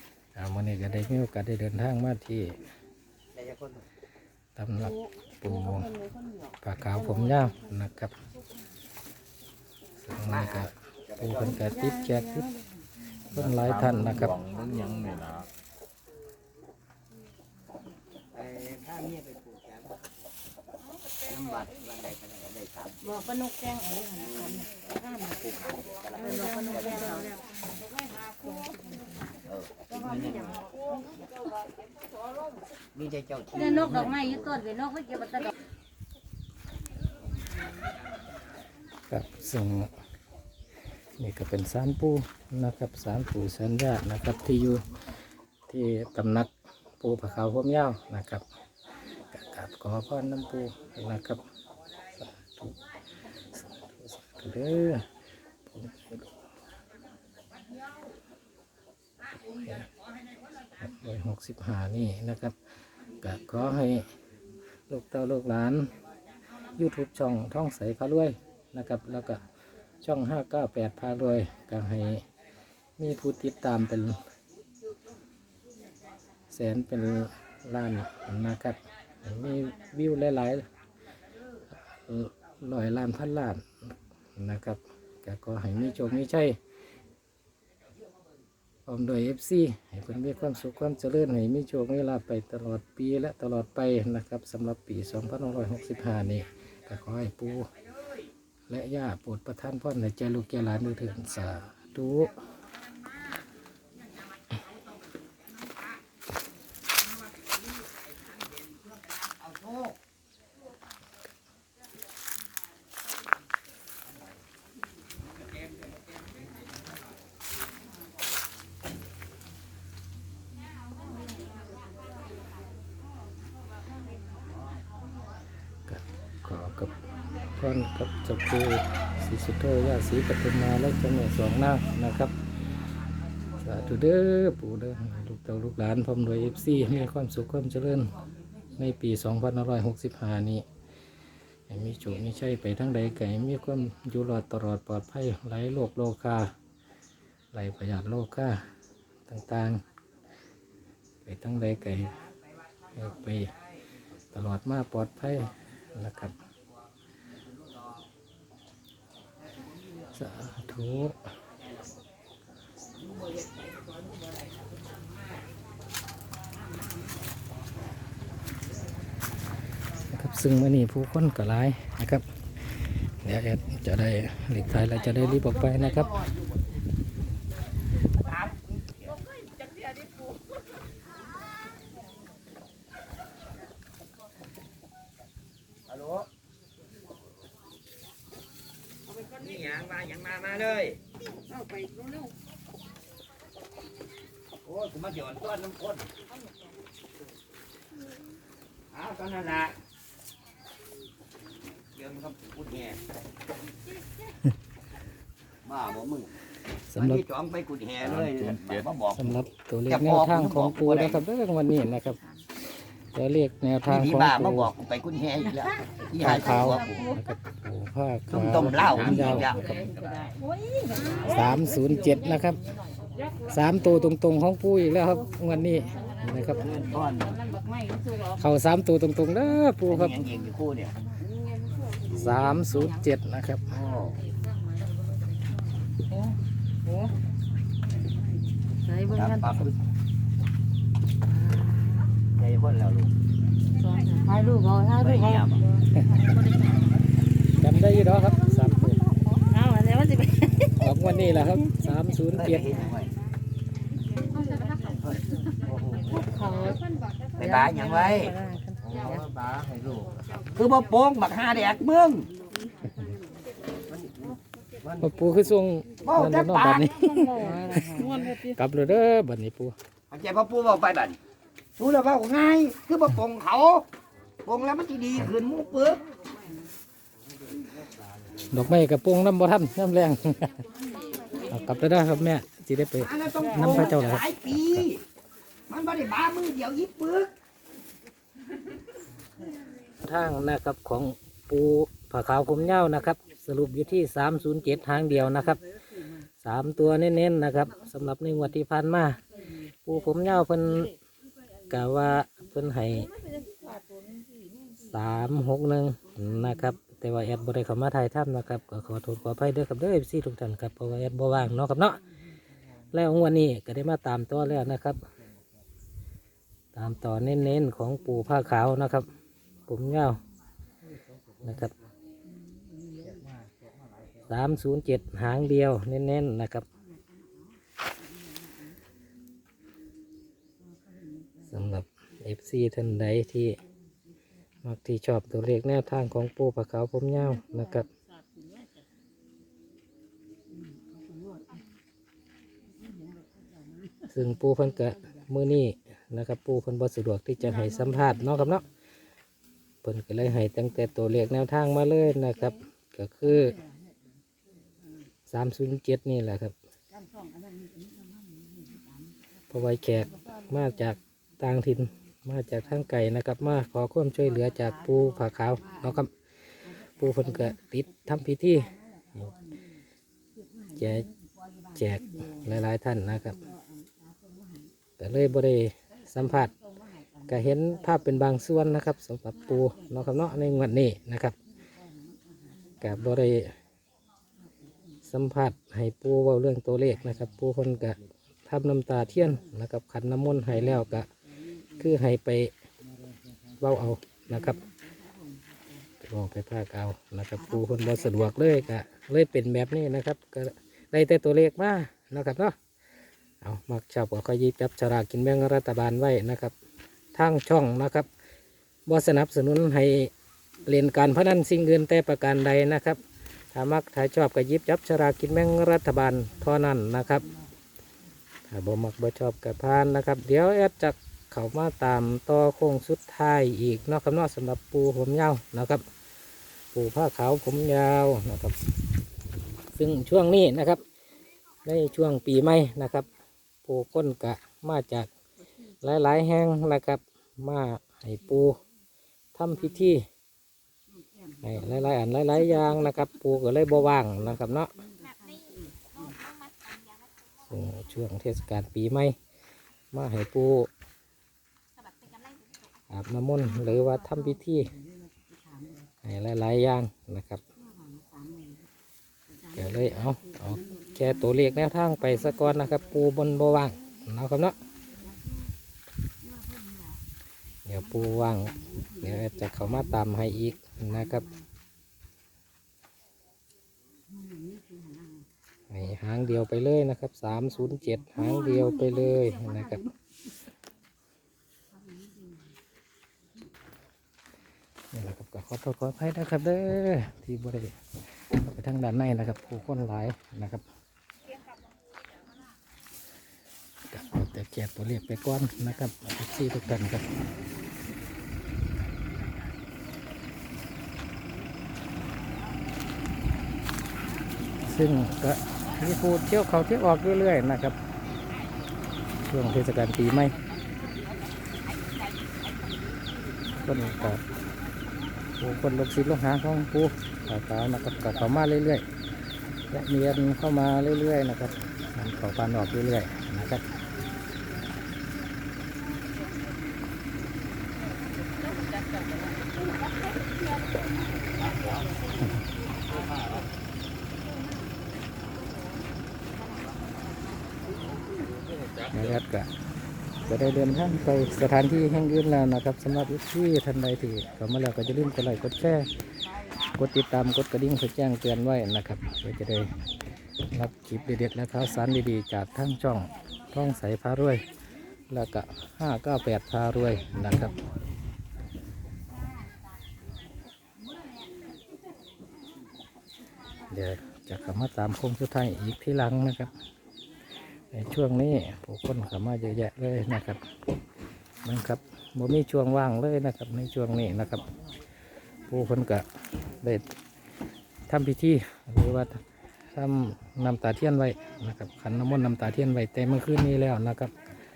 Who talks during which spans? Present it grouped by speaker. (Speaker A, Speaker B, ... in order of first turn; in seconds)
Speaker A: 0.3-2.6, 4.5-5.9, 6.6-8.1, 10.0-12.5, 13.3-14.4, 39.1-39.9, 41.2-44.8, 45.7-48.4, 49.3-51.4, 52.1-52.8, 53.3-55.1, 55.6-56.3, 59.4-59.9, 60.7-62.5, 63.2-64.1, 64.9-65.9, 66.8-69.4, 70.0-72.2, 73.0-74.2, 76.5-80.7, 81.7-86.6, 88.8-97.7, 98.7-102.3, 125.9-126.9, 127.6-132.3, 133.6-138.2, 138.8-140.6, 141.7-146.5, 147.5-148.6, 149.3-149.8, 151.2-152.2, 152.9-153.5, 154.3-156.3, 160.1-161.3, 170.1-176.1, 206.9-207.2, 209.1-212.2, 213.1-214.7, 216.2-219.9, 221.2-222.6, 223.5-226.7, 228.3-230.2, 232.1-233.7, 247.6-249.0, 250.7-252.9, 265.0-269.7, 278.5-280.6, 281.4-284.9, 290.0-295.6, 296.4-299.2, 299.8-300.9, 301.7-303.1, 304.8-312.0, 312.9-315.0, 316.7-319.1, 319.7-320.2, 321.4-321.7, 324.3-326.6, 331.5-333.6, 334.6-337.9, 344.1-348.6, 349.8-353.6, 355.3-356.5, 359.5-366.1, 367.0-369.3, 370.8-371.1, 371.7-373.4, 375.0-376.5, 377.2-381.3, 382.8-383.5, 385.1-391.1, 391.8-392.5, 393.6-394.6, 396.0-402.5, 403.4-406.5, 407.1-408.1, 408.9-410.1, 410.6-413.0, 413.5-417.3, 418.5-425.9, 426.7-428.6, 429.7-430.8, 431.6-433.1, 433.6-435.1, 435.8-438.6, 439.3-440.0, 441.4-444.7, 447.5-449.1, 449.9-450.7, 452.9-454.7, 456.0-457.4, 459.5-464.6, 467.6-471.3, 475.7-479.9, 484.9-490.6, 493.9-497.1, 504.6-507.8, 509.2-510.4, 513.5-514.2, 515.4-518.9, 519.7-523.6, 538.9-539.5, 540.2-545.9, 546.8-549.7, 550.5-554.4, 555.1-557.5, 563.7-566.5, 567.7-570.4, 571.4-574.5, 575.5-576.0, 576.6-576.9, 577.9-579.2, 579.7-584.1
Speaker B: 3.3-3.8, 10.3-11.6, 18.3-20.0, 21.2-23.3, 24.1-27.2, 29.4-30.6, 32.9-34.6, 109.1-110.0, 178.2-179.1, 185.9-186.3, 189.2-191.0, 194.6-196.1, 198.9-199.8, 201.9-203.0, 205.6-206.3, 206.9-209.4, 209.9-211.2, 213.9-217.1, 218.3-219.8, 226.5-227.4, 229.9-230.9, 233.7-234.2, 239.1-239.8, 242.3-243.1, 245.0-245.6, 252.3-253.1, 255.6-256.3, 257.3-262.3, 263.9-265.0, 266.0-267.2, 270.1-271.2, 271.8-273.9, 274.4-276.0, 283.0-285.0, 285.7-287.3
Speaker C: 13.3-15.5, 208.0-208.9
Speaker D: 23.2-24.4, 26.2-27.3, 33.7-35.5, 191.7-192.2, 220.4-221.3, 227.8-228.2, 236.9-237.1, 238.8-239.5, 241.3-242.1, 243.8-245.5, 246.2-246.8, 249.5-250.7, 254.3-255.0, 256.1-256.9, 258.0-259.2, 267.2-268.4